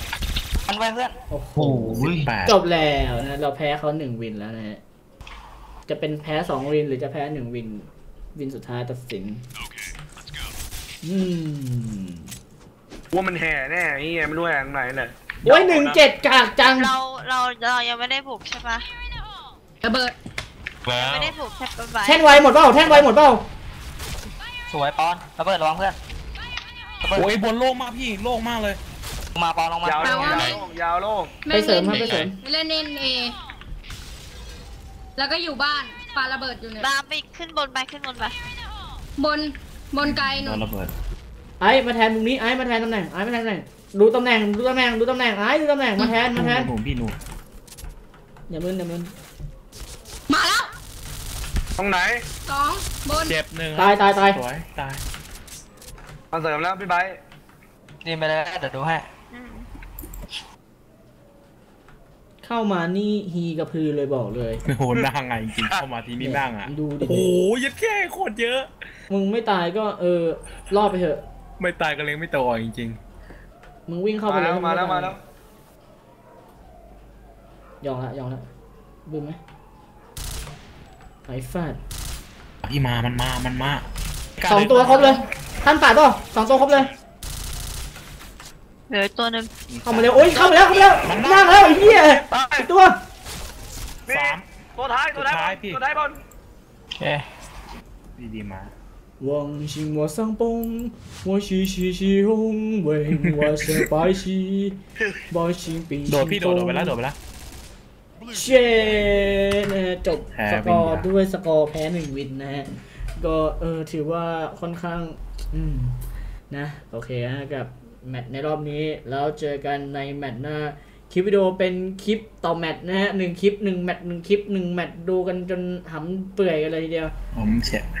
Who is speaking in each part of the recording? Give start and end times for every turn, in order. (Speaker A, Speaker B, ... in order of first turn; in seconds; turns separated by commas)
Speaker A: 0.7-1.1, Speaker B: 1.3-4.8, Speaker C: 1.6-2.3, Speaker D: 1.9-2.6, Speaker B: 5.9-9.4, Speaker B: 11.0-12.3, Speaker E: 13.1-16.0, Speaker B: 15.4-16.9, Speaker F: 16.7-18.9, Speaker G: 19.8-20.1, Speaker C: 20.8-21.3, Speaker F: 20.9-22.5, Speaker B: 22.1-23.4, Speaker A: 24.7-26.0, Speaker A: 27.0-27.4, Speaker D: 27.1-28.8, Speaker A: 29.3-30.5, Speaker E: 29.8-31.3, Speaker G: 30.0-30.6, Speaker C: 30.3-30.6, Speaker G: 31.4-33.3, Speaker B: 31.5-32.4, Speaker C: 31.9-32.3, Speaker G: 35.1-36.9, Speaker F: 36.8-38.4, Speaker G: 39.2-40.6, Speaker D: 40.0-40.9, Speaker B: 41.6-46.7, Speaker D: 46.0-47.2, Speaker B: 48.5-49.1, Speaker G: 50.3-50.7, Speaker E: 51.8-52.2, Speaker G: 52.5-53.4, Speaker D: 53.2-55.0, Speaker B: 53.8-54.4, Speaker E: 56.3-57.2, Speaker A: 58.0-59.1, Speaker F: 59.3-59.6, Speaker B: 62.4-64.6, Speaker D: 64.7-68.7, Speaker B: 66.2-67.3, Speaker B: 69.1-71.2, Speaker D: 71.6-73.0, Speaker B: 73.9-75.2, Speaker E: 74.3-75.2, Speaker B: 77.8-78.5, Speaker B: 79.0-79.4, Speaker B: 81.2-81.8, Speaker D: 82.6-83.8, Speaker D: 84.4-85.2, Speaker B: 84.4-86.9, Speaker F: 88.9-89.5, Speaker D: 89.7-90.5, Speaker B: 89.8-93.0, Speaker F: 90.4-91.0, Speaker D: 91.0-92.3, Speaker E: 92.3-92.7, Speaker E: 94.1-96.2, Speaker D: 94.1-94.4, Speaker D: 95.1-95.8, Speaker A: 97.0-97.2, Speaker D: 98.2-98.7, Speaker B: 99.2-104.8, Speaker D: 103.1-103.9, Speaker B: 105.3-107.0, Speaker D: 106.1-107.2, Speaker B: 108.3-116.0, Speaker D: 108.9-109.2, Speaker D: 110.3-111.1, Speaker B: 116.5-127.1, Speaker D: 127.3-127.9